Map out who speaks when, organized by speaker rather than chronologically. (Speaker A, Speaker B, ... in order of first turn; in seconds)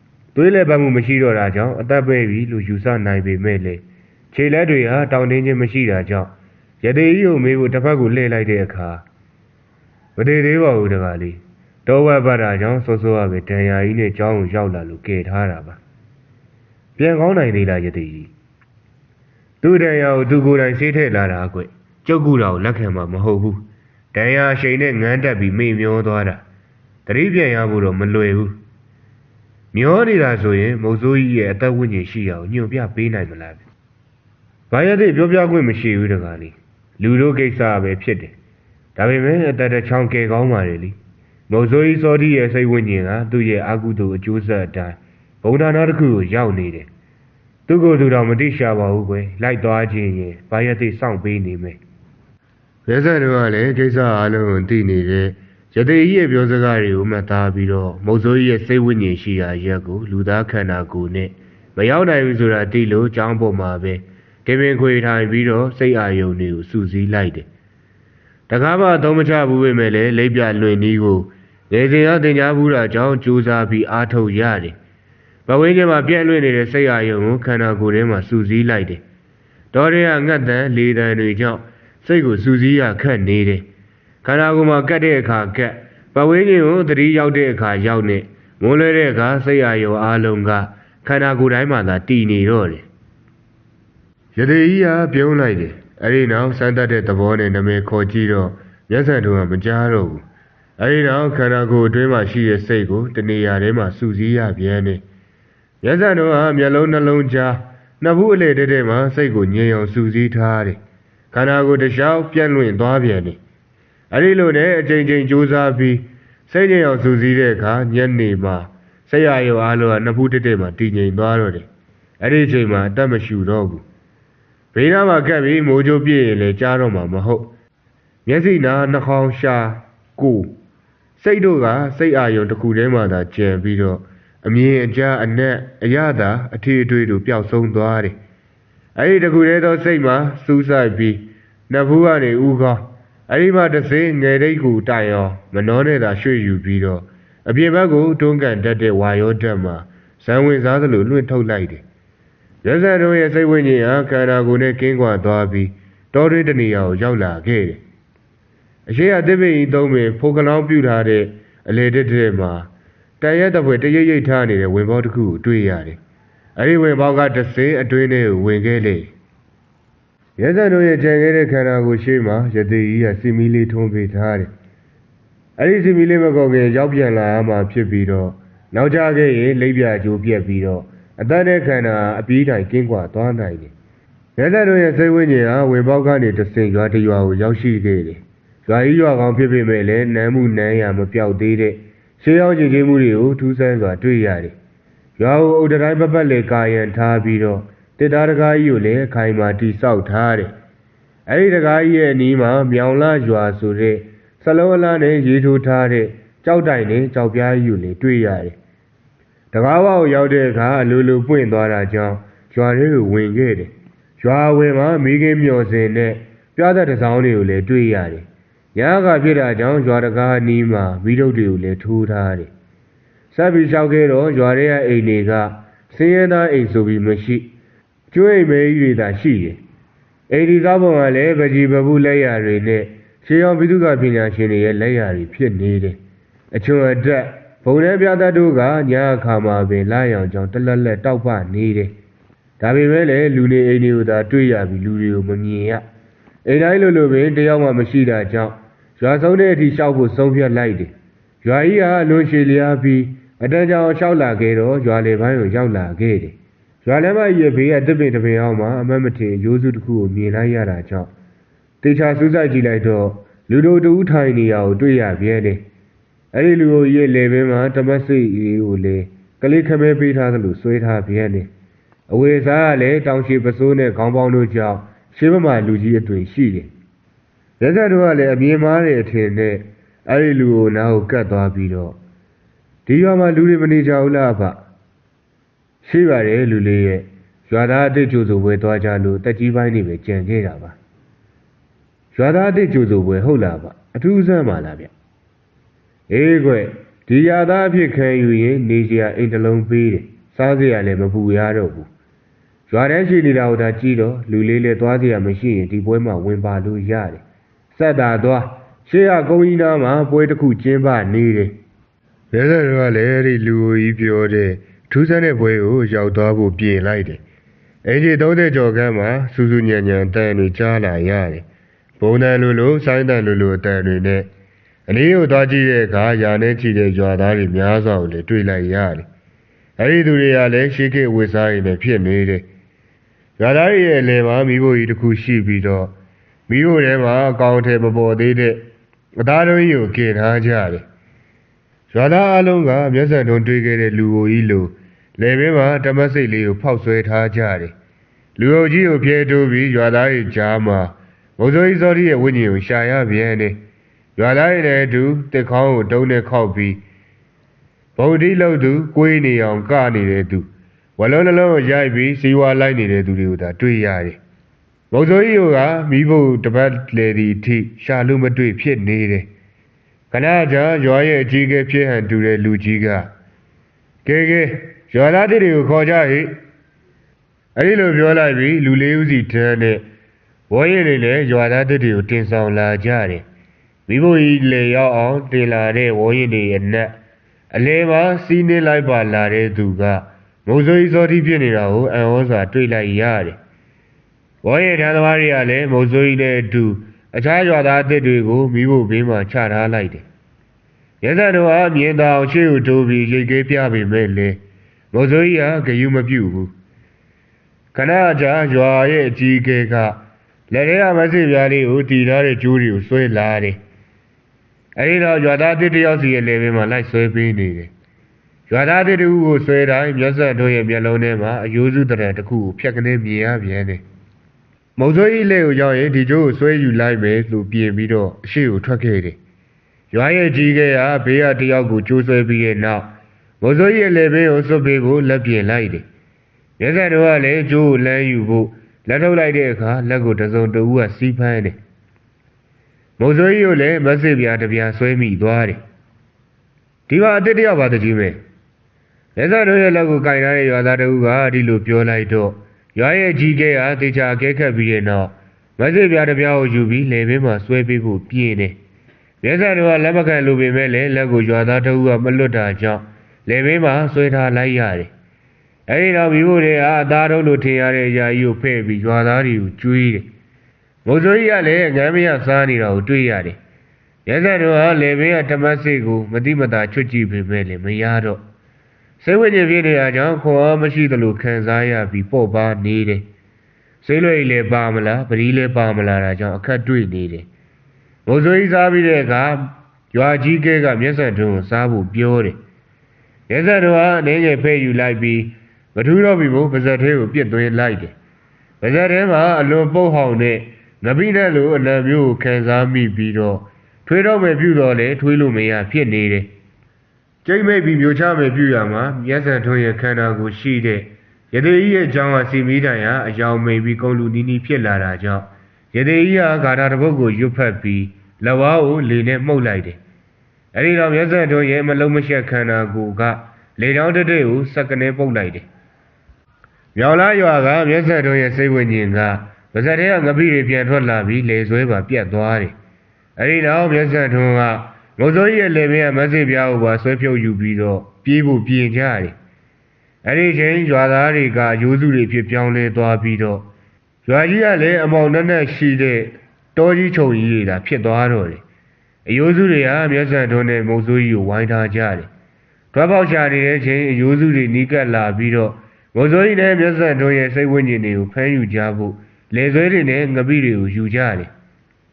Speaker A: 0.3-9.0, 10.2-15.8, 17.0-18.3, 19.6-23.6, 24.1-26.4, 27.1-28.6, 29.7-33.6, 34.7-38.4, 39.0-41.0, 41.5-46.9, 47.7-51.8, 52.9-67.5, 68.5-74.8, 75.5-79.0, 79.7-83.7, 84.2-92.9, 94.4-100.2, 100.8-105.0, 105.8-110.8, 111.3-113.4, 114.1-121.7, 122.2-123.8, 124.7-127.5, 128.3-130.5, 131.2-138.2, 139.0-151.8, 152.6-157.8, 158.9-162.7, 163.2-166.0, 166.6-169.1, 170.4-174.5, 175.6-183.7, 184.4-194.6, 195.2-200.5, 201.3-208.6, 209.5-222.5, 223.3-227.5, 228.1-229.6, 230.3-236.0, 236.5-241.9, 242.6-245.8, 246.5-261.1, 261.8-265.6, 266.3-271.5, 272.1-276.7, 277.6-282.0, 282.9-284.6, 285.8-290.8, 292.1-294.9, 296.1-301.9, 302.7-311.6, 312.3-317.2, 317.9-321.5, 322.0-324.3, 324.9-329.1, 329.8-332.5, 333.4-335.9, 336.5-338.6, 339.2-340.9, 341.9-347.7, 348.4-353.6, 354.2-356.8, 358.0-360.5, 361.0-364.2, 364.9-369.3, 370.1-373.1, 374.1-376.4, 377.6-379.8, 380.5-383.2, 383.9-386.9, 387.5-393.4, 394.4-400.1, 401.0-404.4, 404.9-406.5, 407.7-413.6, 414.8-417.7, 418.5-423.8, 424.8-429.2, 429.9-432.9, 433.4-435.9, 436.6-441.6, 443.0-445.6, 446.9-448.2, 449.2-458.6, 459.2-464.9, 465.7-470.1, 470.9-473.4, 474.1-478.2, 479.0-483.1, 483.8-487.3, 488.1-492.4, 493.3-497.9, 498.6-506.3, 507.2-519.8, 520.5-525.5, 526.8-532.5, 533.2-539.1, 540.0-543.5, 544.1-548.4, 549.1-552.1, 552.7-561.3